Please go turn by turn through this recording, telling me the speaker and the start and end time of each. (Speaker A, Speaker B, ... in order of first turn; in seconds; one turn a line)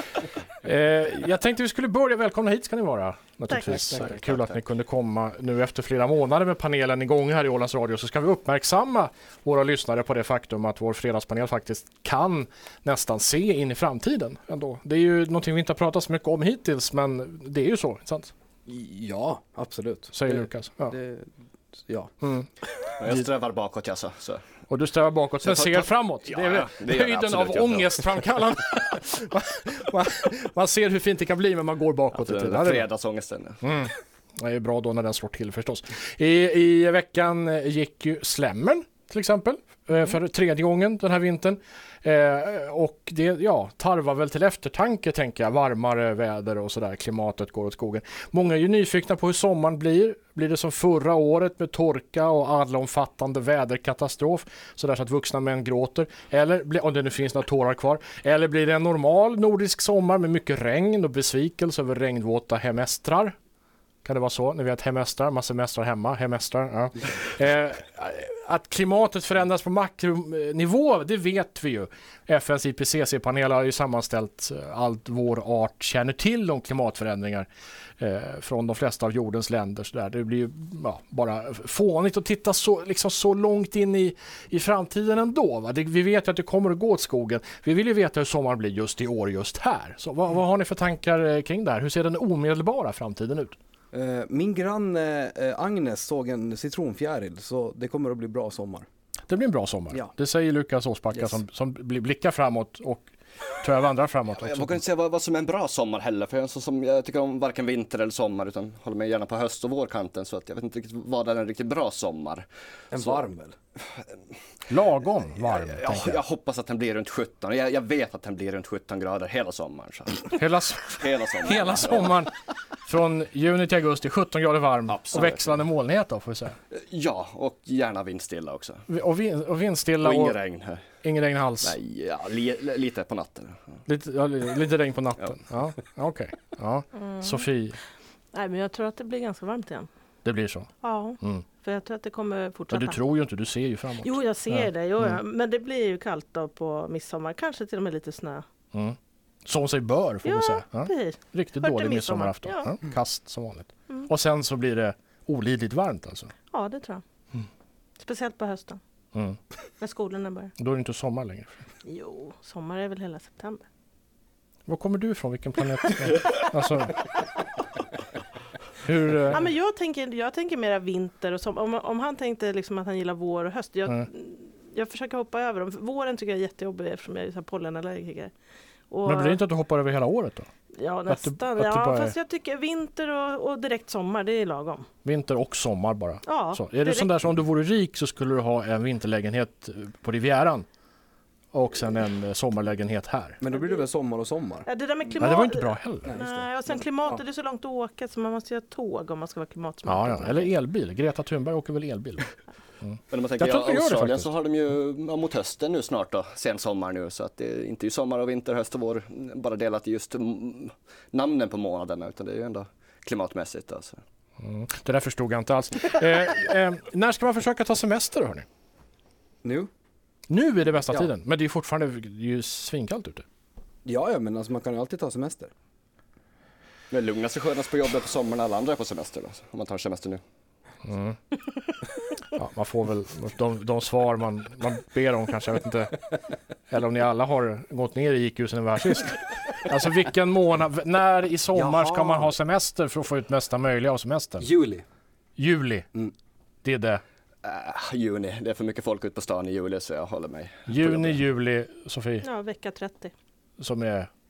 Speaker A: 0.6-18.3
Speaker B: 3.5-3.9
Speaker C: 3.7-4.6
Speaker D: 18.7-21.3
Speaker A: 20.1-20.9
Speaker D: 21.9-22.1
Speaker A: 22.2-22.5
Speaker C: 23.0-24.4
Speaker A: 24.7-32.9
Speaker C: 25.4-28.2
Speaker C: 32.1-33.6
Speaker A: 33.6-63.4
Speaker A: 64.0-77.5
Speaker A: 78.0-93.5
Speaker D: 93.9-98.9
Speaker A: 99.3-104.8
Speaker C: 104.4-113.2
Speaker D: 112.9-113.5
Speaker A: 114.7-116.2
Speaker C: 115.6-120.4
Speaker A: 120.3-122.3
Speaker C: 121.0-122.2
Speaker A: 122.8-126.6
Speaker C: 124.9-125.5
Speaker C: 126.7-128.8
Speaker A: 128.9-130.4
Speaker C: 130.0-130.9
Speaker A: 131.0-131.8
Speaker C: 131.6-133.7
Speaker A: 133.9-137.8
Speaker B: 136.9-137.5
Speaker B: 138.3-139.9
Speaker A: 140.2-140.7
Speaker B: 140.8-143.0
Speaker A: 142.7-145.2
Speaker B: 144.0-148.4
Speaker A: 148.7-156.3
Speaker B: 150.2-152.7
Speaker B: 156.5-157.0
Speaker B: 158.0-158.8
Speaker B: 159.8-160.5
Speaker A: 160.6-161.6
Speaker B: 161.8-163.7
Speaker A: 164.7-167.0
Speaker A: 168.8-169.5
Speaker B: 169.3-178.3
Speaker B: 178.9-179.4
Speaker A: 179.1-180.5
Speaker B: 180.7-184.9
Speaker A: 181.1-182.2
Speaker A: 185.1-190.7
Speaker B: 186.3-187.1
Speaker A: 191.5-193.4
Speaker D: 193.4-194.7
Speaker B: 193.5-193.8
Speaker B: 194.7-200.5
Speaker A: 195.2-196.2
Speaker D: 196.1-197.2
Speaker A: 199.8-202.3
Speaker A: 202.8-204.3
Speaker C: 203.1-214.0
Speaker A: 214.4-218.4
Speaker D: 219.4-219.7
Speaker A: 220.3-223.2
Speaker D: 223.8-225.5
Speaker C: 226.9-230.2
Speaker A: 230.8-231.2
Speaker A: 232.3-236.0
Speaker A: 236.7-244.5
Speaker D: 241.6-242.3
Speaker D: 244.4-244.8
Speaker A: 245.4-245.9
Speaker A: 246.6-247.0
Speaker C: 247.4-251.2
Speaker A: 250.7-252.2
Speaker B: 252.2-253.1
Speaker A: 253.6-254.1